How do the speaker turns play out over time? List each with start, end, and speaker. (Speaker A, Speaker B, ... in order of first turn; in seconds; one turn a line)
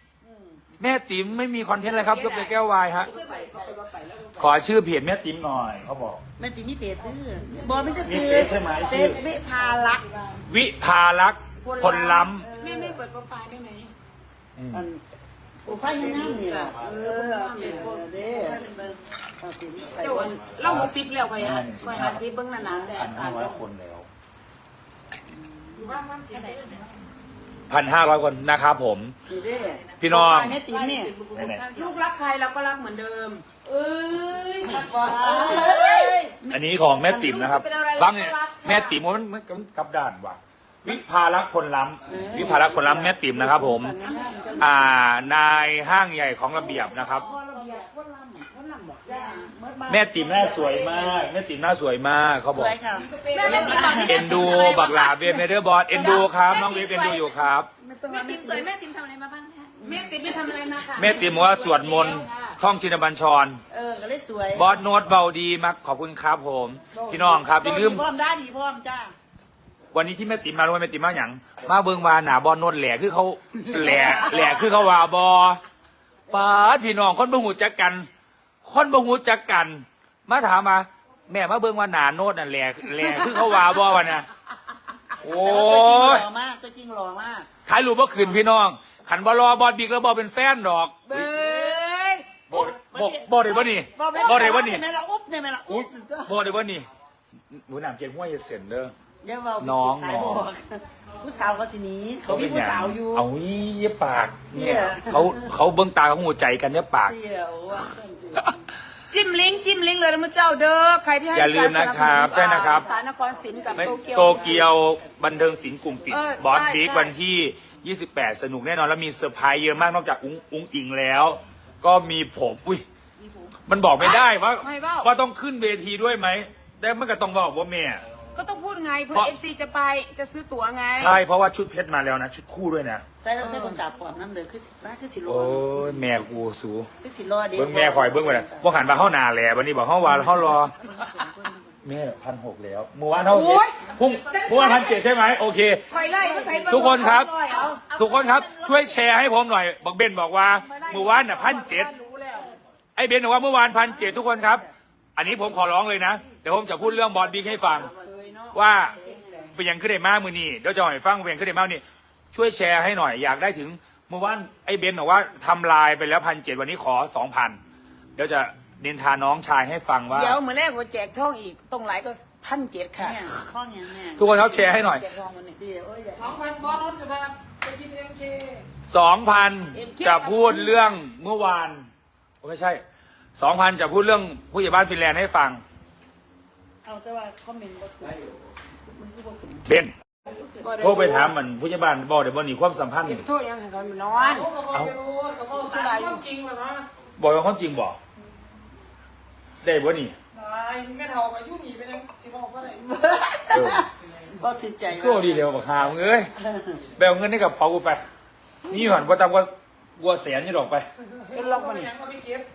Speaker A: 0.2-0.6
Speaker B: 0.8-3.1
Speaker C: 1.9-4.3
Speaker D: 3.0-4.6
Speaker B: 4.4-6.2
Speaker A: 6.4-9.4
Speaker D: 7.5-10.4
Speaker B: 8.0-9.2
Speaker B: 10.5-12.5
Speaker A: 11.6-13.0
Speaker D: 12.6-13.9
Speaker B: 14.6-14.8
Speaker A: 14.7-15.0
Speaker A: 15.6-16.9
Speaker D: 15.6-18.0
Speaker C: 17.0-19.0
Speaker A: 17.5-18.6
Speaker A: 19.4-20.4
Speaker D: 19.9-23.6
Speaker B: 20.6-22.2
Speaker A: 22.6-23.1
Speaker B: 22.9-24.1
Speaker A: 25.5-25.9
Speaker D: 25.8-26.8
Speaker C: 26.3-26.8
Speaker B: 27.7-29.1
Speaker A: 29.3-31.1
Speaker B: 30.0-30.6
Speaker C: 30.6-32.0
Speaker B: 31.3-31.6
Speaker D: 31.7-36.1
Speaker C: 33.7-36.1
Speaker A: 34.7-37.4
Speaker B: 36.5-44.0
Speaker D: 37.3-39.0
Speaker A: 42.1-43.2
Speaker D: 43.2-44.8
Speaker A: 44.0-45.0
Speaker B: 44.6-47.2
Speaker A: 46.5-48.4
Speaker D: 46.6-49.5
Speaker A: 49.0-51.3
Speaker B: 49.9-52.7
Speaker A: 52.5-55.5
Speaker D: 53.0-54.0
Speaker C: 53.3-55.1
Speaker B: 53.9-57.7
Speaker C: 56.0-57.4
Speaker A: 57.8-58.7
Speaker C: 58.1-59.7
Speaker A: 59.8-62.5
Speaker D: 59.8-62.2
Speaker B: 61.0-63.6
Speaker A: 63.7-64.8
Speaker B: 64.5-68.0
Speaker A: 67.0-69.1
Speaker B: 69.9-75.6
Speaker B: 76.3-78.1
Speaker B: 78.6-84.2
Speaker B: 85.2-86.2
Speaker A: 85.3-87.5
Speaker B: 87.7-91.3
Speaker D: 91.1-92.3
Speaker A: 91.3-91.8
Speaker B: 92.5-94.8
Speaker A: 92.5-96.3
Speaker D: 94.2-94.5
Speaker B: 95.7-96.9
Speaker B: 97.5-98.9
Speaker A: 99.2-100.7
Speaker B: 99.6-100.5
Speaker A: 101.2-103.3
Speaker B: 102.3-107.2
Speaker A: 104.5-105.5
Speaker A: 107.0-108.6
Speaker D: 109.1-114.7
Speaker B: 111.3-112.9
Speaker A: 112.4-114.8
Speaker B: 113.7-122.8
Speaker D: 116.1-117.1
Speaker B: 123.7-128.0
Speaker D: 124.0-125.1
Speaker D: 128.3-131.2
Speaker B: 130.9-133.0
Speaker A: 133.2-136.1
Speaker D: 133.4-133.8
Speaker B: 135.2-136.9
Speaker A: 137.0-138.7
Speaker B: 137.5-140.7
Speaker A: 140.3-141.8
Speaker B: 141.8-145.8
Speaker D: 143.3-145.0
Speaker D: 145.9-147.6
Speaker A: 145.9-147.8
Speaker B: 146.7-147.3
Speaker C: 147.5-149.1
Speaker B: 147.9-151.9
Speaker D: 150.6-152.5
Speaker B: 152.9-154.6
Speaker A: 153.7-154.7
Speaker B: 155.2-157.9
Speaker A: 156.7-158.2
Speaker D: 157.7-159.5
Speaker B: 158.5-158.9
Speaker A: 158.8-159.5
Speaker B: 159.5-167.6
Speaker B: 168.2-170.4
Speaker D: 170.1-173.2
Speaker A: 173.0-174.3
Speaker B: 174.2-175.1
Speaker D: 174.3-175.6
Speaker A: 175.6-176.4
Speaker D: 176.6-177.0
Speaker E: 177.6-178.2
Speaker B: 178.8-181.9
Speaker D: 179.7-180.8
Speaker B: 182.4-182.8
Speaker B: 183.3-185.6
Speaker A: 186.8-188.2
Speaker B: 189.7-189.9
Speaker D: 190.6-191.3
Speaker B: 190.8-193.2
Speaker D: 193.0-194.5
Speaker B: 194.7-194.9
Speaker D: 195.4-196.2
Speaker E: 195.8-196.2
Speaker B: 197.2-198.0
Speaker B: 199.6-200.1
Speaker E: 201.5-202.0
Speaker A: 202.8-205.5
Speaker B: 203.5-203.8
Speaker B: 204.9-206.3
Speaker A: 206.4-206.8
Speaker B: 206.9-208.0
Speaker B: 208.7-210.8
Speaker D: 211.3-211.9
Speaker E: 211.5-211.9